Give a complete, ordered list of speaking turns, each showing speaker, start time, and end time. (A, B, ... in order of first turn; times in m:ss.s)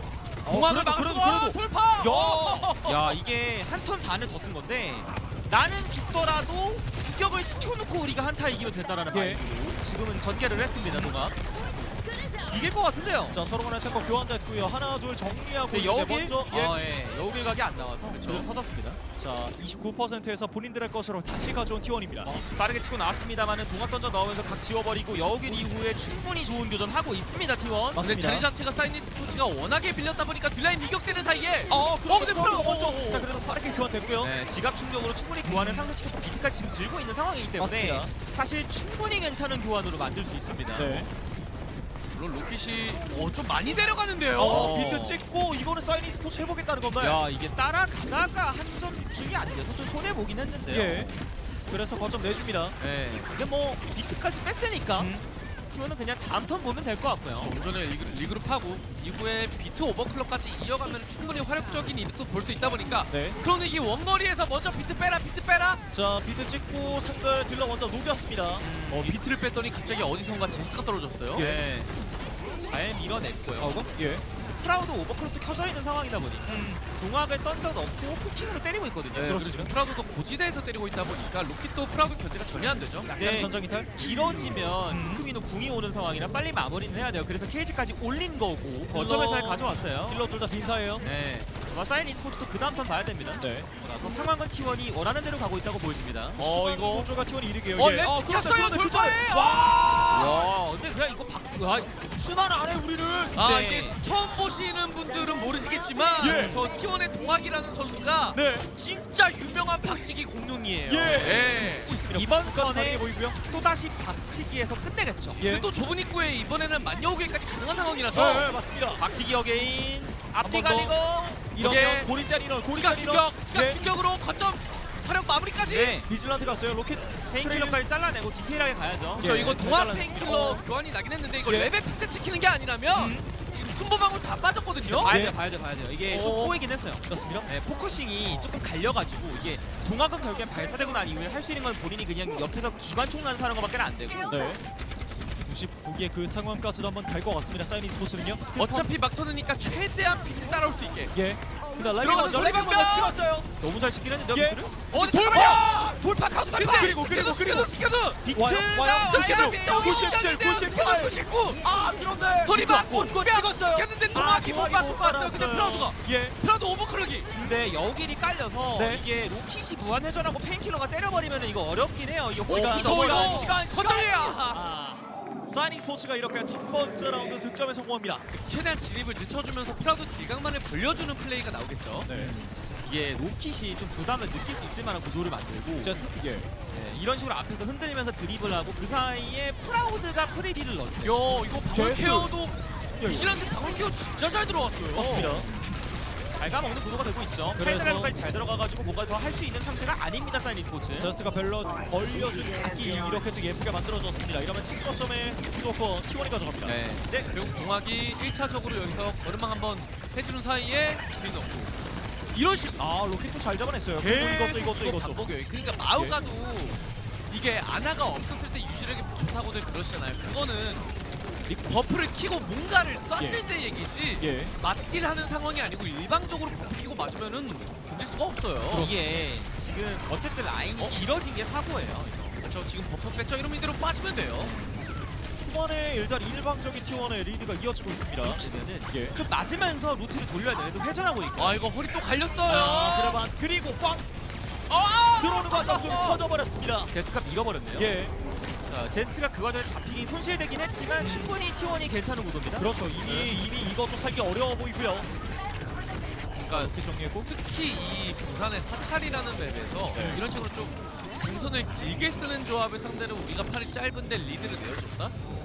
0:00.4-0:02.8 A
0:00.4-0:03.1 B
0:02.8-0:11.4 C
0:09.1-0:09.4 A
0:12.5-0:13.4 C
0:13.3-0:16.7 A
0:15.7-0:19.0 C
0:18.1-0:18.5 B
0:19.2-0:22.3 A
0:22.2-0:28.1 C
0:28.0-0:28.4 A
0:28.0-0:33.3 B
0:31.7-0:34.3 A
0:34.2-0:41.1 C
0:35.4-0:35.9 A
0:37.6-0:38.1 A
0:40.7-0:41.1 A
0:42.1-0:44.7 B
0:44.4-0:47.2 A
0:44.4-0:45.2 C
0:46.9-0:51.1 C
0:50.7-0:51.1 A
0:51.7-0:52.8 A
0:52.8-0:55.1 C
0:55.0-0:55.2 A
0:55.7-0:57.5 C
0:57.4-1:05.8 B
1:03.1-1:03.4 A
1:05.9-1:08.6 A
1:08.6-1:09.2 C
1:08.9-1:11.5 B
1:11.3-1:11.6 A
1:11.4-1:11.9 C
1:12.7-1:13.8 C
1:13.6-1:14.2 A
1:14.6-1:19.4 C
1:16.5-1:16.8 B
1:19.1-1:23.1 B
1:19.2-1:19.7 A
1:23.0-1:25.2 A
1:23.1-1:30.2 C
1:28.9-1:31.0 A
1:31.0-1:36.4 C
1:33.4-1:33.7 A
1:36.4-1:37.1 B
1:36.4-1:40.5 A
1:37.8-1:40.0 B
1:40.1-1:41.9 C
1:42.1-1:43.4 A
1:43.4-1:52.0 B
1:43.4-1:44.0 C
1:46.2-1:46.6 C
1:46.2-1:46.6 A
1:48.3-1:48.7 A
1:50.8-1:53.4 A
1:51.0-1:55.4 C
1:55.4-1:55.6 A
1:55.4-1:58.5 B
1:58.1-1:59.0 A
1:59.0-2:01.4 C
2:00.4-2:00.9 A
2:01.5-2:03.8 A
2:01.6-2:02.1 B
2:02.7-2:06.0 B
2:05.6-2:06.1 C
2:06.0-2:07.8 A
2:07.3-2:09.6 C
2:09.2-2:10.6 A
2:09.2-2:15.1 B
2:11.4-2:11.7 A
2:12.9-2:13.2 A
2:14.9-2:15.4 A
2:15.0-2:24.5 C
2:16.1-2:16.6 B
2:17.1-2:17.5 A
2:24.3-2:24.6 A
2:25.4-2:28.5 A
2:28.5-2:28.9 C
2:28.6-2:31.1 B
2:31.1-2:33.5 A
2:31.8-2:33.2 B
2:33.6-2:37.0 C
2:34.3-2:36.0 A
2:34.9-2:35.9 B
2:36.6-2:38.2 B
2:36.6-2:46.3 A
2:38.2-2:40.1 C
2:39.0-2:41.6 B
2:42.4-2:47.3 B
2:47.3-2:53.6 C
2:48.8-2:49.0 A
2:52.5-2:54.6 B
2:52.5-2:58.2 A
2:58.4-3:02.1 B
3:02.0-3:02.4 A
3:02.1-3:06.0 C
3:05.8-3:06.5 A
3:06.7-3:11.4 C
3:11.0-3:15.4 B
3:11.7-3:12.3 A
3:13.0-3:13.4 A
3:14.9-3:15.5 A
3:16.4-3:21.1 C
3:17.6-3:18.1 A
3:21.0-3:26.8 A
3:26.6-3:27.3 C
3:27.3-3:31.7 B
3:32.3-3:32.8 B
3:32.8-3:35.3 A
3:34.0-3:40.8 B
3:41.5-3:48.9 B
3:43.2-3:43.4 A
3:44.2-3:44.5 A
3:48.7-3:52.4 C
3:52.4-3:54.5 B
3:55.4-3:59.1 A
3:58.2-4:01.6 C
4:01.4-4:03.2 B
4:02.5-4:04.0 A
4:04.7-4:06.2 B
4:05.2-4:06.9 A
4:06.9-4:07.9 C
4:07.8-4:08.1 A
4:08.6-4:12.7 C
4:11.0-4:11.3 A
4:12.6-4:15.1 A
4:13.0-4:13.3 B
4:16.4-4:16.7 B
4:16.5-4:17.3 A
4:17.2-4:25.1 B
4:19.9-4:20.2 A